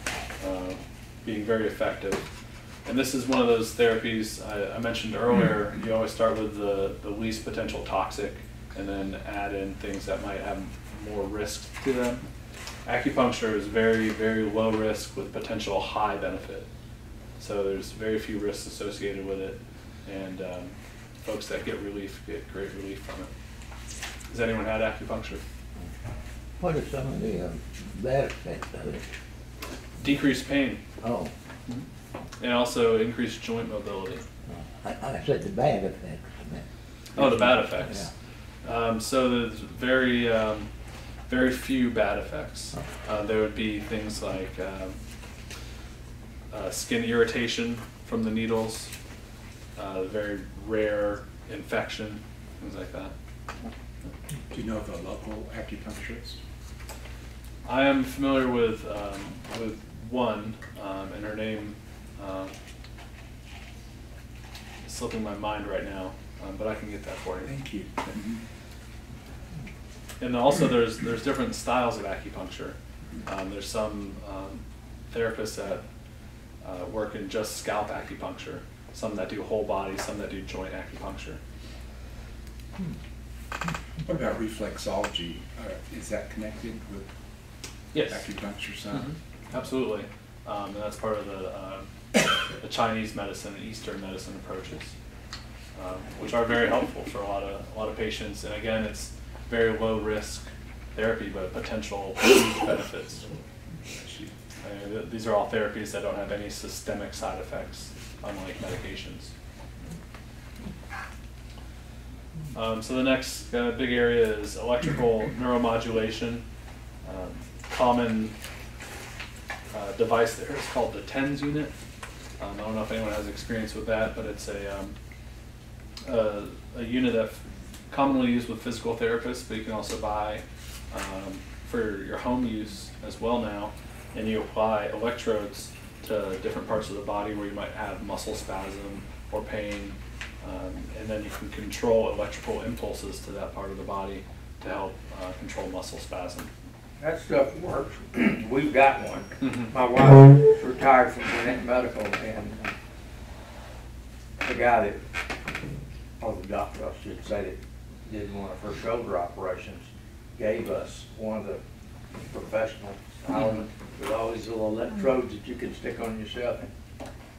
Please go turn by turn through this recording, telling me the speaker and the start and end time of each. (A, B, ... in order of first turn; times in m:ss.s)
0:00.4-0:02.3 A
0:02.8-0:12.2 A
0:12.9-0:16.7 A
0:17.4-0:23.3 A
0:24.3-0:25.4 A
0:26.6-0:29.1 B
0:30.0-0:30.8 A
0:31.0-0:31.3 B
0:32.4-0:34.2 A
0:34.5-0:38.1 B
0:37.2-0:38.1 A
0:38.6-0:40.7 A
0:41.3-0:45.0 A
0:46.5-0:48.9 A
0:49.8-0:53.2 A
0:54.5-0:56.4 C
0:57.6-1:02.5 A
1:04.8-1:07.5 A
1:07.4-1:08.4 C
1:10.2-1:15.8 A
1:16.6-1:21.4 A
1:24.0-1:27.1 C
1:27.9-1:28.3 A
1:28.0-1:29.2 C
1:28.9-1:35.0 A
1:35.8-1:43.3 A
1:44.0-1:44.3 C
1:44.6-1:49.3 A
1:52.5-1:56.4 A
1:57.0-1:58.4 A
1:59.7-2:01.7 A
2:02.4-2:05.0 A
2:06.0-2:26.5 A
2:27.0-2:32.7 D
2:29.4-2:29.7 A
2:34.4-2:35.0 D
2:36.2-2:41.6 D
2:42.3-2:46.7 D
2:43.3-2:43.6 A